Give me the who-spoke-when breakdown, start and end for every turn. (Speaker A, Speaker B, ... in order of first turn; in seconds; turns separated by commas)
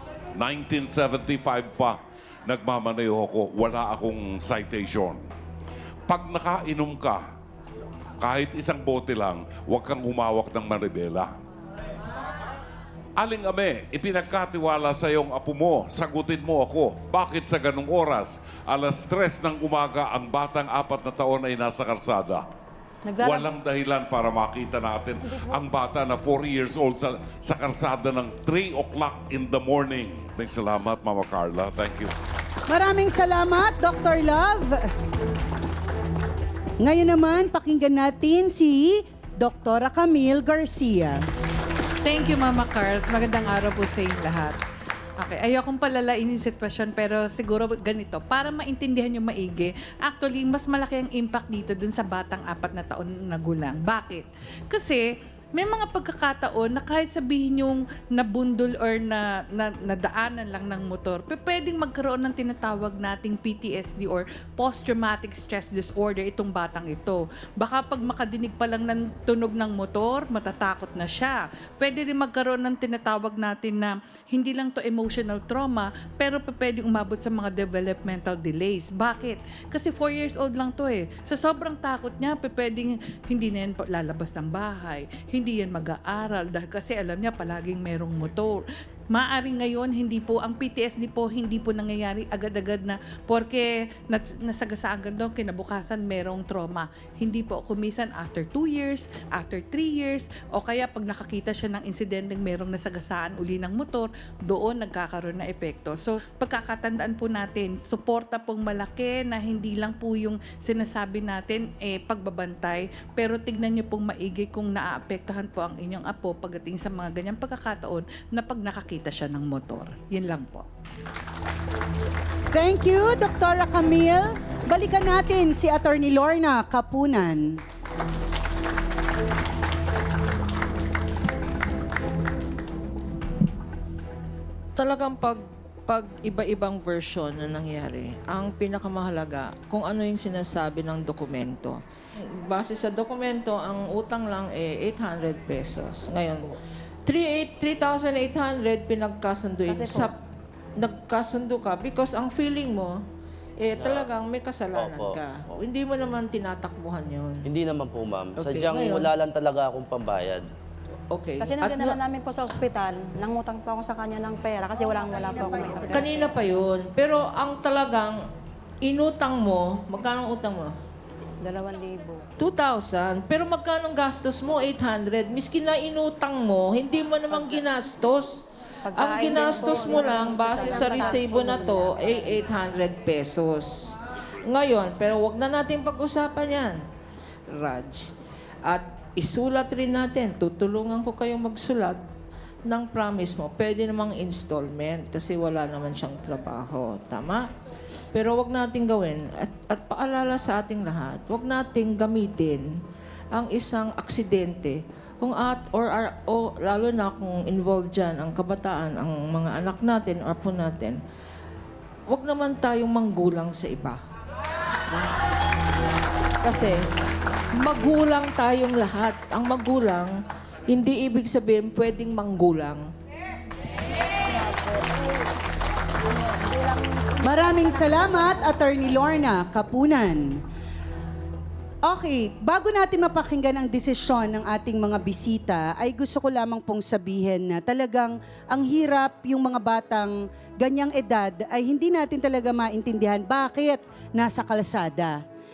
Speaker A: 0.4-5.3, Speaker A: 6.1-7.2, Speaker A: 8.2-11.3, Speaker A: 13.2-22.4, Speaker B: 23.0-23.5, Speaker A: 23.2-32.1, Speaker C: 32.7-34.8, Speaker C: 36.8-41.2, Speaker D: 42.0-44.6, Speaker D: 45.2-55.1, Speaker D: 55.6-120.7, Speaker C: 122.5-127.6, Speaker E: 134.8-150.2, Speaker B: 149.7-150.1, Speaker E: 150.8-153.0, Speaker E: 153.6-157.5, Speaker F: 153.8-154.1, Speaker F: 154.8-155.2, Speaker F: 157.5-160.4, Speaker E: 158.4-159.1, Speaker E: 161.1-162.0, Speaker B: 161.4-166.1, Speaker C: 164.8-166.7, Speaker E: 165.8-168.2, Speaker E: 168.8-170.8, Speaker B: 171.4-172.2, Speaker E: 172.4-186.8, Speaker B: 178.8-182.4, Speaker E: 187.5-188.1, Speaker E: 188.7-192.0, Speaker E: 192.7-197.5, Speaker E: 198.1-202.7, Speaker E: 203.3-211.0, Speaker E: 212.1-214.0, Speaker E: 214.9-215.2, Speaker E: 216.4-216.8, Speaker E: 217.6-220.1, Speaker E: 220.7-222.9, Speaker B: 224.3-225.1, Speaker B: 226.1-228.5, Speaker C: 227.2-230.4, Speaker C: 231.8-245.2